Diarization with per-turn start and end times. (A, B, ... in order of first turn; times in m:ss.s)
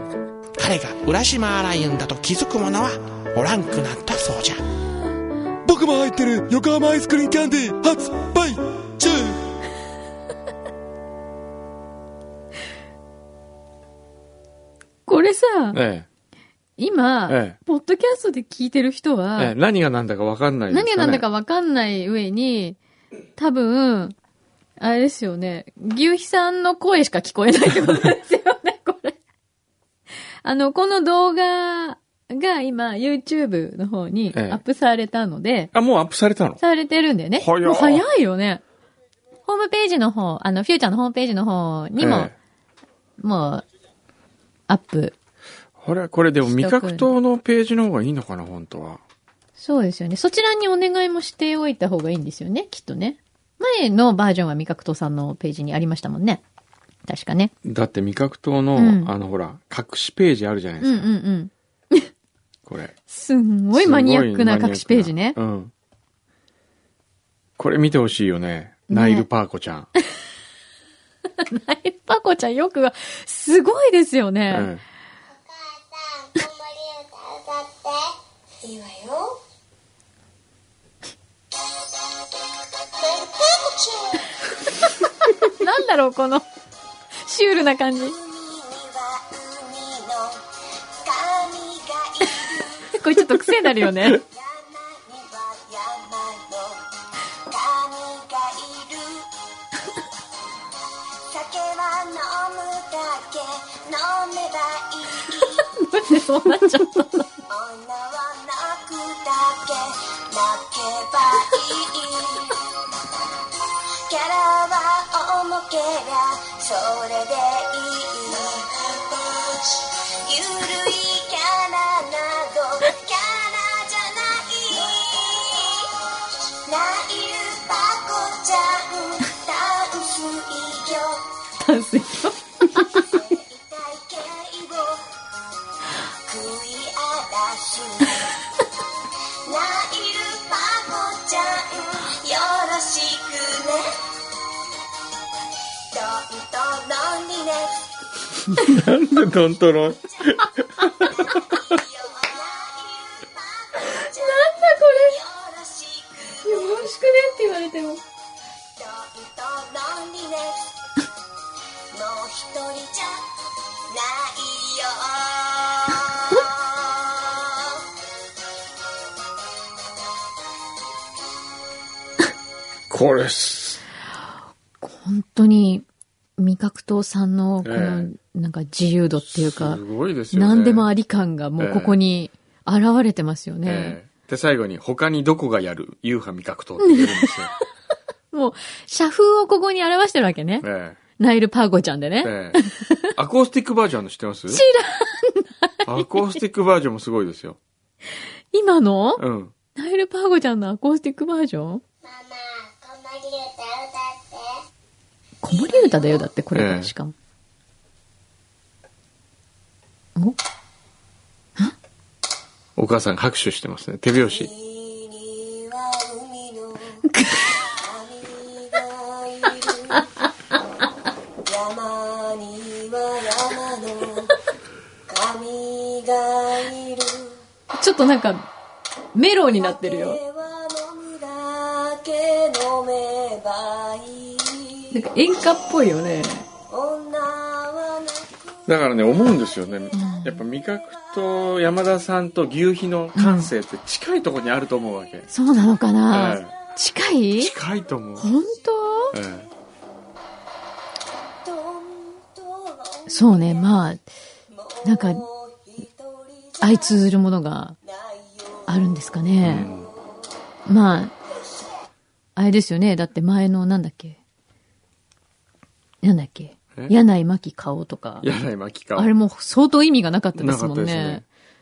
0:00.6-0:04.6 A
0:05.7-0:09.4 B
0:15.1-0:15.8 C
0:15.7-0:16.1 D
0:16.8-0:19.5 C
0:17.3-0:17.6 D
0:19.4-0:21.2 D
0:20.7-0:22.8 C
0:23.4-0:24.2 C
0:24.8-0:29.2 C
0:30.4-0:35.7 C
0:34.3-0:34.6 D
0:35.7-0:36.6 D
0:36.6-0:38.6 C
0:37.4-0:38.0 D
0:39.5-0:42.3 C
0:42.0-0:42.4 D
0:43.2-0:43.7 C
0:44.7-0:45.2 C
0:45.8-0:49.0 D
0:46.4-0:47.1 C
0:49.6-0:56.4 C
0:57.1-0:57.5 C
0:57.6-1:01.1 D
0:58.8-0:59.1 C
1:00.8-1:02.1 C
1:02.7-1:03.0 D
1:03.1-1:05.4 C
1:03.8-1:05.7 D
1:07.6-1:09.9 D
1:08.9-1:09.3 C
1:11.4-1:14.7 C
1:14.5-1:14.8 D
1:15.3-1:19.4 E
1:23.0-1:24.6 E
1:25.2-1:26.5 C
1:27.2-1:28.2 C
1:28.0-1:30.4 E
1:31.0-1:33.0 E
1:32.9-1:34.2 C
1:34.2-1:36.8 E
1:37.4-1:39.3 E
1:41.3-1:45.7 E
1:45.4-1:47.3 C
1:47.5-1:52.6 E
1:54.1-2:11.2 E
2:11.6-2:13.1 C
2:12.8-2:15.1 E
2:16.2-2:18.3 E
2:19.4-2:23.9 E
2:25.9-2:27.7 E
2:28.5-2:31.8 D
2:31.0-2:36.9 E
2:33.9-2:35.2 C
2:36.4-2:38.0 C
2:38.8-2:40.7 E
2:41.9-2:43.3 E
2:43.9-2:47.8 E
2:52.9-2:53.8 D
2:54.8-2:55.8 C
2:56.4-2:59.8 C
2:57.6-2:58.1 D
2:59.2-3:00.9 D
3:00.3-3:04.0 C
3:01.6-3:02.0 D
3:03.6-3:07.5 D
3:06.8-3:07.3 C
3:08.3-3:10.7 C
3:10.6-3:11.0 D
3:11.2-3:13.1 C
3:12.2-3:12.6 D
3:13.2-3:14.6 D
3:14.5-3:16.1 C
3:15.8-3:17.6 D
3:18.5-3:19.2 C
3:19.2-3:19.5 D
3:19.8-3:21.8 C
3:22.0-3:24.6 E
3:25.4-3:27.1 C
3:25.5-3:26.2 E
3:26.6-3:26.9 D
3:32.8-3:34.5 D
3:34.3-3:40.1 E
3:37.1-3:37.6 C
3:41.4-3:44.4 E
3:45.1-3:47.4 E
3:47.8-3:48.5 C
3:49.2-3:50.2 C
3:49.5-3:55.0 E
3:54.9-3:56.5 C
3:56.7-3:58.5 E
3:58.7-4:05.3 D
3:59.9-4:00.4 C
4:03.2-4:03.5 C
4:05.3-4:07.5 C
4:06.1-4:06.6 D
4:07.4-4:08.3 D
4:08.2-4:09.2 C
4:09.1-4:09.5 D
4:11.4-4:13.7 E
4:13.1-4:14.0 C
4:14.5-4:17.0 E
4:14.8-4:15.2 C
4:16.6-4:17.8 C
4:17.9-4:18.8 E
4:18.7-4:19.7 C
4:19.4-4:19.9 D
4:20.7-4:21.1 C
4:22.4-4:24.2 C
4:26.0-4:28.3 C
4:28.2-4:29.1 D
4:29.0-4:31.2 C
4:30.4-4:31.2 D